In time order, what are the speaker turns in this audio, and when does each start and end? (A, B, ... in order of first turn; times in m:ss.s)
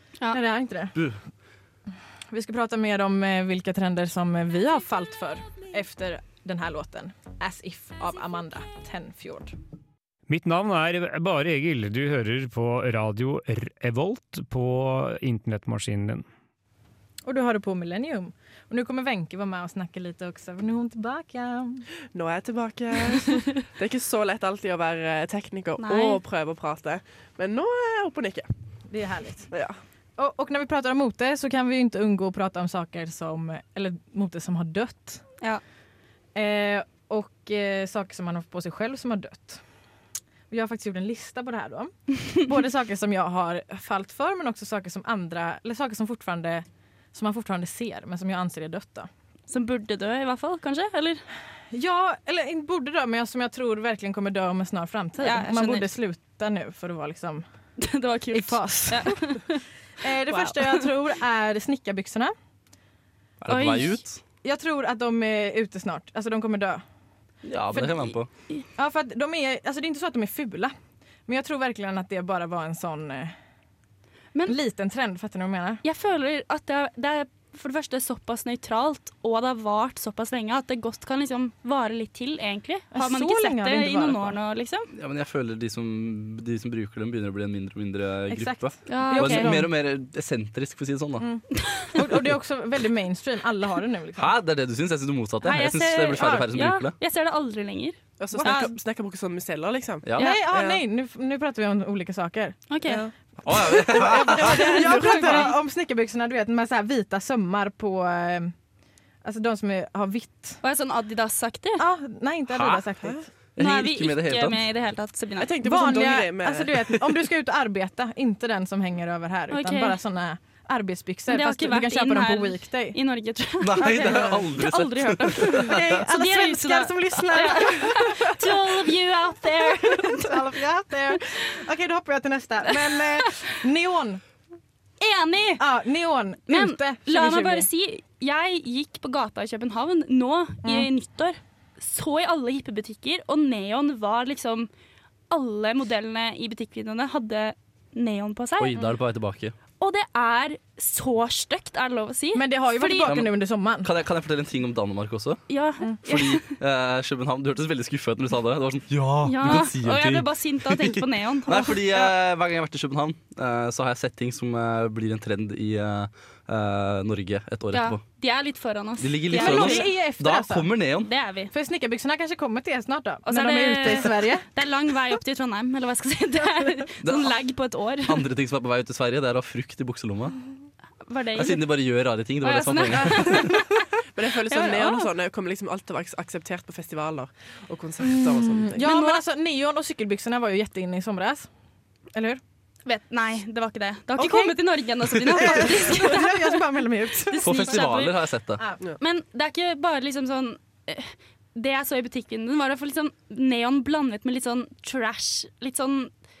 0:00.3-0:00.9 A
0:00.9-0:01.2 B
0:02.3-0:09.5 A
0:10.3-0:16.2 C
0:17.2-0:21.8 A
0:22.1-0:28.5 D
0:25.8-0:26.2 E
0:28.9-0:29.5 A
0:29.5-0:29.8 D
0:30.2-0:35.2 A
0:36.3-0:39.6 A
0:40.5-0:49.1 A
0:49.5-0:51.2 E
0:51.7-0:57.4 A
0:55.2-0:55.9 E
0:57.8-0:59.6 E
0:58.3-0:59.4 A
1:00.0-1:02.3 A
1:00.3-1:00.8 E
1:03.4-1:04.2 B
1:03.5-1:04.0 E
1:04.4-1:06.8 A
1:07.4-1:08.3 B
1:08.8-1:10.7 A
1:11.3-1:13.3 A
1:14.5-1:15.8 A
1:15.8-1:24.9 E
1:22.9-1:24.4 A
1:24.9-1:31.2 B
1:28.3-1:29.7 A
1:28.9-1:29.5 E
1:31.2-1:34.3 A
1:34.2-1:36.9 B
1:35.4-1:38.7 E
1:36.2-1:36.4 A
1:38.2-1:40.8 D
1:38.3-1:38.7 A
1:40.2-1:43.1 A
1:42.7-1:43.0 E
1:43.4-1:44.5 B
1:43.7-1:48.5 A
1:44.0-1:45.5 D
1:44.3-1:45.5 E
1:49.2-1:50.6 A
1:50.6-1:51.8 E
1:51.8-1:53.3 A
1:52.5-1:52.8 B
1:53.6-1:54.6 B
1:53.6-1:55.5 E
1:55.4-1:56.9 D
1:55.6-2:03.0 A
1:59.5-2:00.0 E
2:01.3-2:10.5 E
2:03.6-2:05.9 B
2:03.8-2:04.4 A
2:05.6-2:08.8 A
2:09.8-2:14.2 A
2:15.0-2:15.6 E
2:15.6-2:17.7 A
2:16.5-2:24.7 E
2:25.3-2:28.8 E
2:28.6-2:29.5 B
2:29.8-2:33.1 E
2:32.3-2:33.9 A
2:33.0-2:35.4 B
2:35.5-2:36.5 E
2:36.0-2:48.0 B
2:39.2-2:41.8 E
2:47.7-2:49.9 E
2:49.0-2:51.1 B
2:49.3-2:50.7 A
2:51.0-2:51.5 E
2:51.5-2:54.4 A
2:53.2-2:58.2 E
2:57.0-2:57.3 B
2:58.0-3:00.4 B
3:01.0-3:01.6 E
3:01.4-3:03.4 B
3:02.4-3:03.8 E
3:04.1-3:08.8 D
3:04.5-3:05.1 E
3:08.0-3:11.5 A
3:08.8-3:09.2 E
3:12.1-3:12.4 A
3:12.8-3:16.6 E
3:14.2-3:14.6 A
3:15.1-3:17.8 A
3:17.3-3:18.2 E
3:17.4-3:18.6 B
3:19.0-3:26.1 E